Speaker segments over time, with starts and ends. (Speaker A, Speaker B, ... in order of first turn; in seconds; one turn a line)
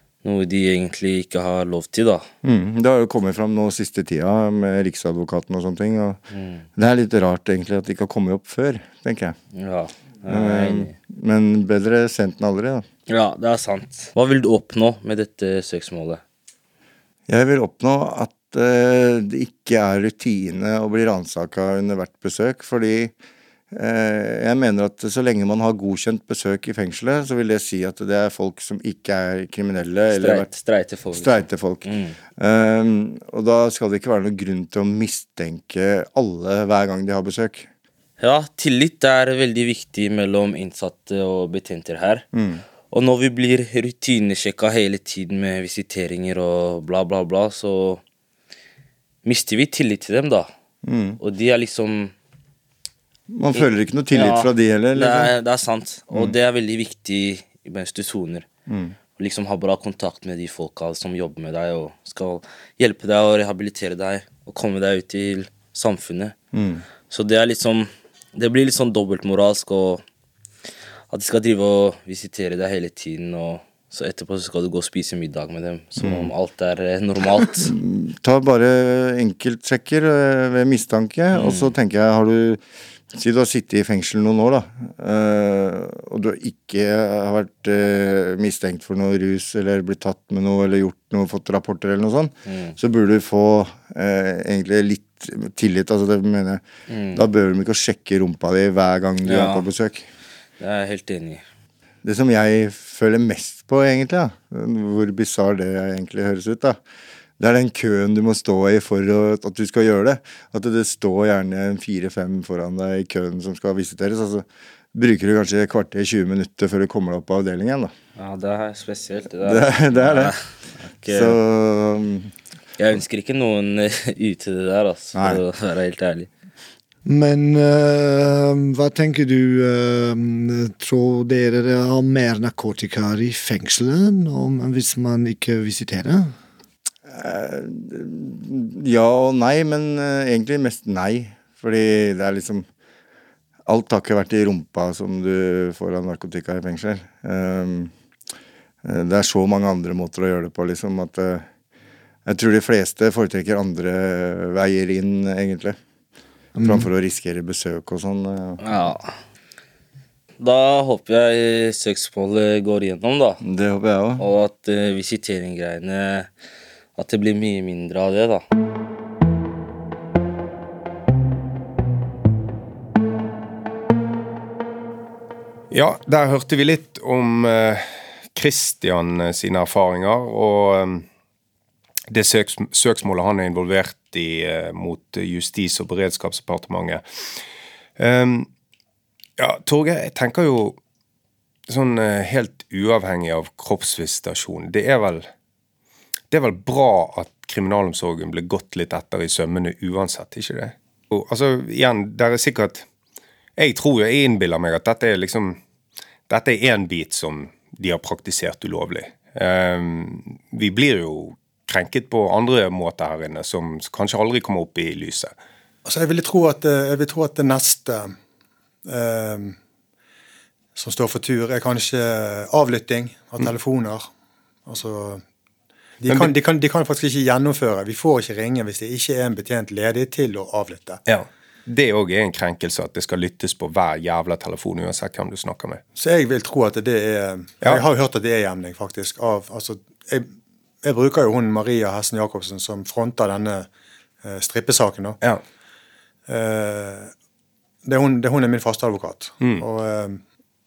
Speaker A: 0.2-2.3
Speaker B: 2.4-6.2
Speaker A: 6.3-6.7
Speaker B: 6.8-9.4
Speaker A: 9.6-10.9
Speaker B: 10.3-12.8
Speaker A: 13.1-16.2
Speaker B: 17.3-23.1
Speaker B: 23.7-30.5
Speaker A: 30.1-32.2
Speaker B: 31.1-37.7
Speaker A: 38.2-42.3
Speaker B: 42.3-42.6
Speaker A: 42.9-48.0
Speaker A: 49.2-50.5
Speaker B: 50.8-51.2
Speaker A: 51.2-52.1
Speaker B: 53.3-55.3
Speaker A: 53.5-58.5
Speaker B: 58.7-59.0
Speaker A: 59.2-66.3
Speaker B: 66.5-66.8
Speaker A: 67.1-70.0
Speaker A: 71.1-77.7
Speaker B: 76.0-76.3
Speaker B: 77.6-100.1
Speaker A: 81.3-81.7
Speaker A: 92.5-92.8
Speaker A: 96.9-97.3
Speaker A: 99.2-99.7
Speaker A: 100.6-101.4
Speaker B: 102.0-106.8
Speaker B: 107.4-117.9
Speaker A: 118.2-121.4
Speaker B: 119.4-120.3
Speaker B: 121.1-122.3
Speaker A: 122.8-126.3
Speaker B: 125.2-125.4
Speaker C: 127.0-136.3
Speaker B: 137.1-142.7
Speaker B: 143.7-147.9
Speaker B: 148.8-151.5
Speaker B: 152.3-155.8
Speaker C: 156.6-156.9
Speaker B: 156.6-158.6
Speaker A: 158.6-159.2
Speaker A: 160.4-163.4
Speaker B: 163.4-164.2
Speaker A: 164.2-166.3
Speaker A: 167.0-168.4
Speaker D: 175.7-181.1
Speaker D: 182.1-187.0
Speaker D: 188.0-188.5
Speaker D: 189.4-190.8
Speaker D: 191.7-195.3
Speaker D: 196.3-202.8
Speaker D: 203.6-205.6
Speaker D: 206.3-215.3
Speaker E: 215.8-218.2
Speaker E: 218.9-219.6
Speaker E: 220.8-224.1
Speaker E: 224.7-225.2
Speaker E: 226.0-231.0
Speaker D: 226.1-226.3
Speaker D: 231.1-235.8
Speaker E: 236.0-240.3
Speaker E: 240.8-243.7
Speaker E: 244.2-245.2
Speaker E: 246.3-247.1
Speaker E: 247.8-250.2